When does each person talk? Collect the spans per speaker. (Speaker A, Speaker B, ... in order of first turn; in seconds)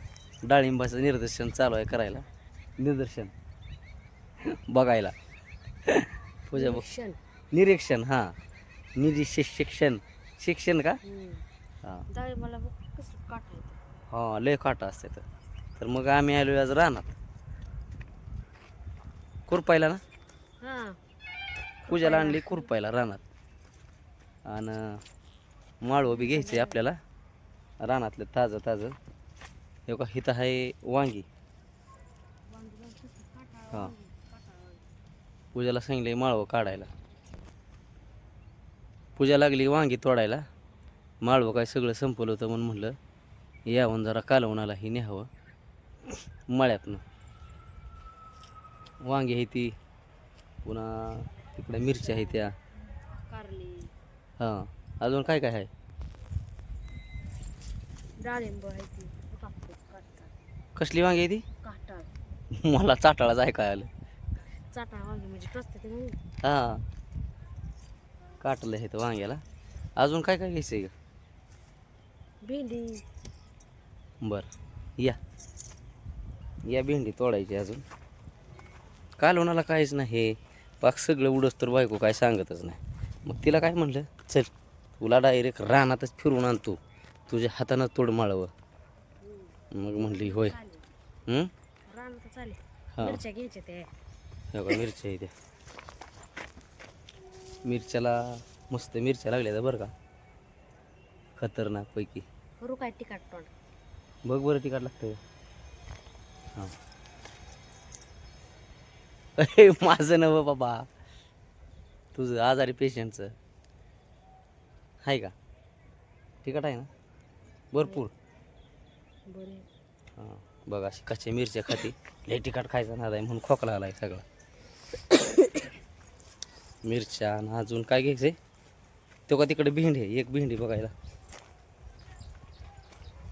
Speaker A: 0.5-2.2, 2.8-3.3, 4.5-5.1, 5.9-6.8, 7.5-8.3, 9.0-11.0, 14.1-15.2, 15.8-17.2, 19.5-20.0, 21.9-23.2, 24.5-25.0, 25.8-27.0, 27.8-29.0, 29.9-31.3, 35.5-36.9, 39.2-40.4, 41.2-43.0, 43.7-45.3, 46.5-47.0, 49.0-49.8, 50.6-52.5, 54.4-55.7, 60.8-61.4, 62.6-63.9, 66.4-66.8, 68.4-69.4, 70.0-70.9, 74.2-75.2, 76.7-77.8, 79.2-88.5, 89.7-90.5, 94.5-95.3, 97.7-99.9, 101.4-102.2, 104.3-105.2, 109.4-110.9, 112.1-113.3, 115.0-115.3, 116.4-116.9, 117.7-118.1, 120.2-124.2, 126.8-128.4, 129.3-130.9
Speaker B: 6.5-7.2, 11.1-11.4, 12.1-13.8, 20.6-21.0, 21.9-22.7, 26.1-26.8, 32.5-34.8, 52.0-52.4, 53.2-53.9, 58.2-60.3, 61.6-62.1, 64.7-66.2, 72.4-73.0, 89.2-90.8, 91.9-93.9, 102.6-103.5, 119.3-119.7